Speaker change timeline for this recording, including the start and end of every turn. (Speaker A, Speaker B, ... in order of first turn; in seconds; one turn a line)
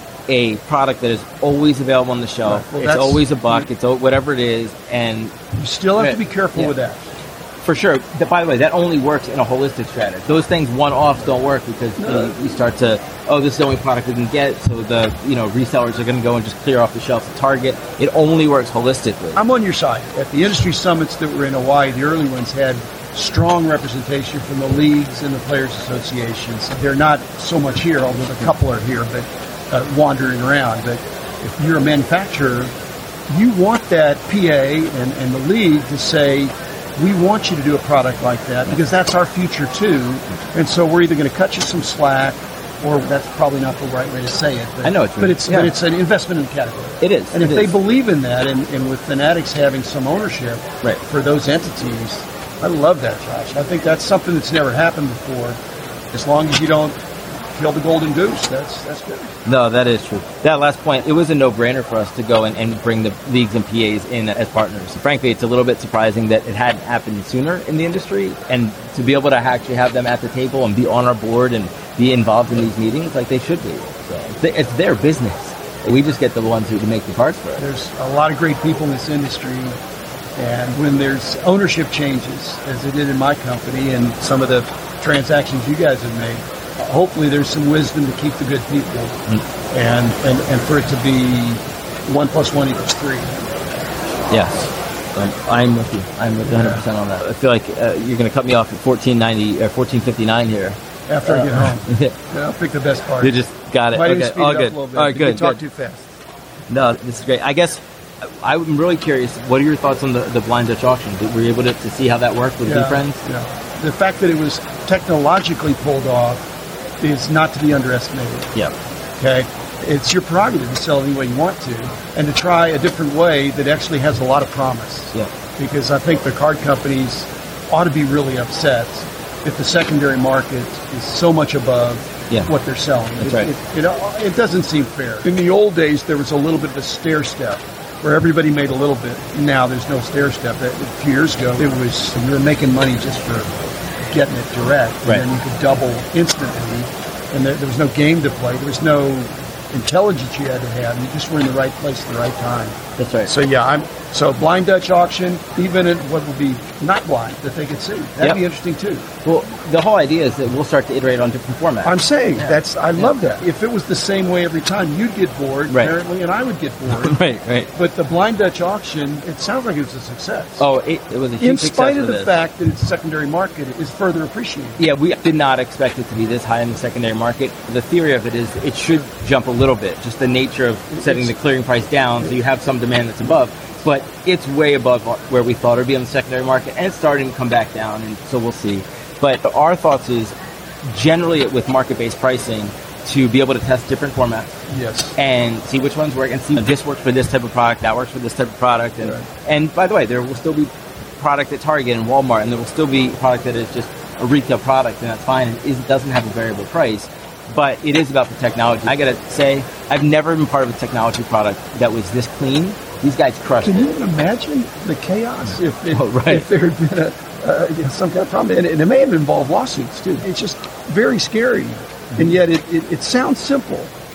Speaker A: 0.3-5.3
Speaker B: 2.5-3.7
Speaker B: 5.5-7.0
Speaker A: 6.0-6.7
Speaker A: 7.6-19.4
Speaker B: 12.0-12.4
Speaker B: 19.4-32.7
Speaker B: 33.3-55.6
Speaker A: 44.8-45.7
Speaker A: 47.0-47.8
Speaker B: 56.1-57.0
Speaker B: 57.5-59.3
Speaker A: 59.5-77.7
Speaker B: 77.6-79.8
Speaker B: 80.4-89.2
Speaker B: 89.7-93.5
Speaker A: 94.3-102.1
Speaker B: 96.5-96.8
Speaker B: 101.1-106.1
Speaker A: 103.2-105.6
Speaker A: 106.7-107.8
Speaker A: 108.4-113.2
Speaker B: 112.6-118.5
Speaker B: 119.2-143.5
Speaker A: 133.2-133.5
Speaker B: 144.1-159.1
Speaker A: 153.0-153.3
Speaker A: 159.2-163.2
Speaker B: 161.8-167.2
Speaker A: 165.7-165.9
Speaker A: 166.9-167.7
Speaker B: 167.7-170.7
Speaker A: 170.6-172.3
Speaker B: 171.4-174.8
Speaker A: 174.8-194.5
Speaker B: 180.9-181.3
Speaker B: 194.7-195.2
Speaker A: 195.2-213.9
Speaker B: 199.0-199.3
Speaker B: 213.6-223.9
Speaker A: 215.9-216.5